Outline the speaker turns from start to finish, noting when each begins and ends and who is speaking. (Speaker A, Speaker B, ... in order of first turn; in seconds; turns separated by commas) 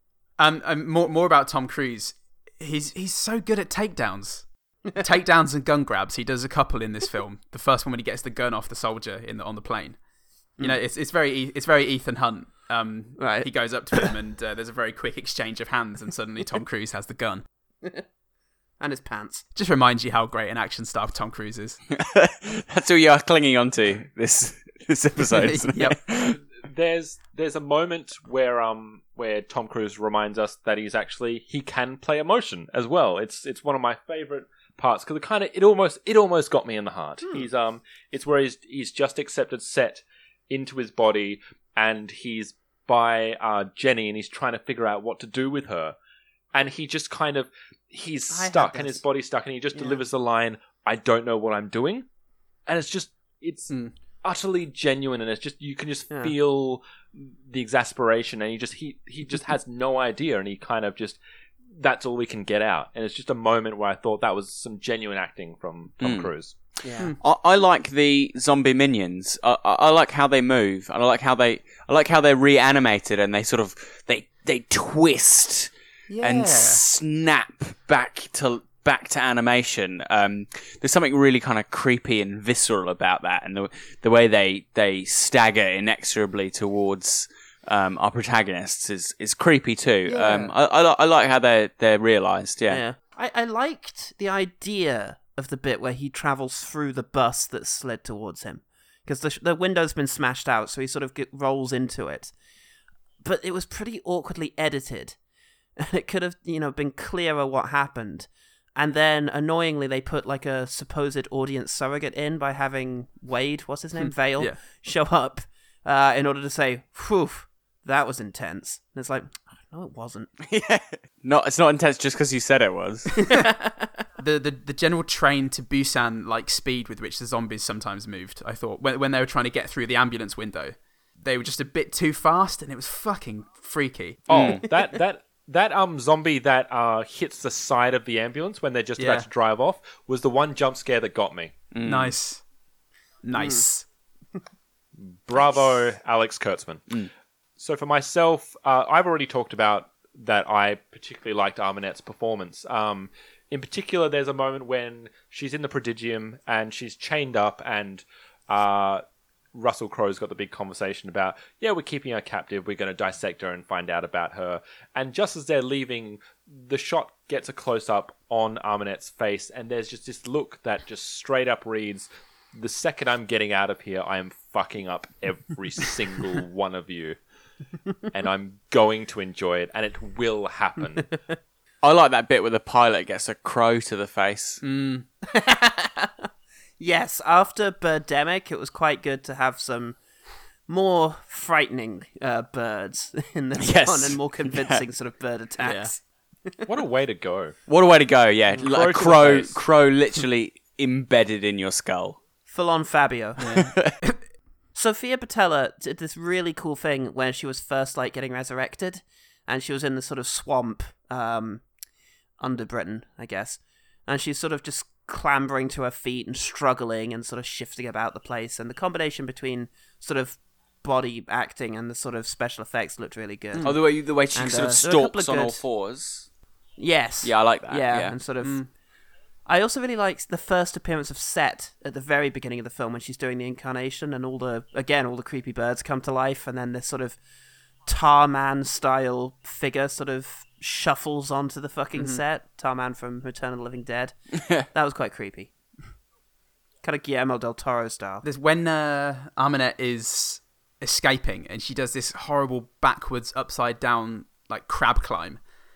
Speaker A: 0.4-10.0, Speaker A: 10.6-17.4, Speaker B: 13.2-14.1, Speaker B: 18.8-19.4, Speaker A: 19.6-21.8, Speaker C: 21.9-26.4, Speaker A: 25.3-26.0, Speaker D: 26.6-46.0, Speaker D: 46.5-52.0, Speaker B: 48.3-49.0, Speaker B: 49.7-50.0, Speaker D: 52.7-53.7, Speaker D: 54.2-61.2, Speaker D: 61.8-66.6, Speaker C: 66.0-66.3, Speaker B: 66.8-67.1, Speaker C: 67.2-92.8, Speaker A: 76.1-76.8, Speaker B: 90.1-90.5, Speaker B: 92.7-102.3, Speaker B: 103.2-105.2, Speaker B: 105.8-120.3, Speaker A: 114.0-114.6, Speaker C: 120.5-123.2, Speaker B: 123.2-123.9, Speaker A: 124.2-134.5, Speaker D: 134.3-141.6, Speaker C: 134.3-134.7, Speaker A: 139.0-139.3, Speaker C: 141.7-142.2, Speaker A: 141.8-142.4, Speaker A: 143.2-143.9, Speaker B: 143.4-143.6, Speaker D: 145.0-146.8, Speaker D: 147.6-177.2, Speaker D: 178.1-181.1, Speaker C: 181.8-184.6, Speaker A: 184.6-185.1, Speaker B: 185.3-186.3, Speaker B: 186.8-190.0, Speaker B: 190.7-196.6, Speaker C: 193.6-194.8, Speaker A: 195.6-195.9, Speaker D: 196.7-197.6, Speaker C: 197.7-202.2, Speaker D: 198.6-199.6, Speaker B: 202.5-203.4, Speaker A: 203.4-204.2, Speaker C: 203.6-203.9, Speaker B: 204.8-211.6, Speaker B: 212.4-223.8, Speaker A: 223.5-223.8, Speaker C: 223.6-226.3, Speaker B: 224.3-225.6, Speaker B: 226.8-228.6, Speaker C: 227.2-228.2, Speaker A: 228.4-228.7, Speaker B: 229.5-237.2, Speaker B: 237.9-244.1, Speaker A: 242.0-242.2, Speaker B: 244.7-245.5, Speaker B: 246.8-248.2, Speaker A: 248.2-255.4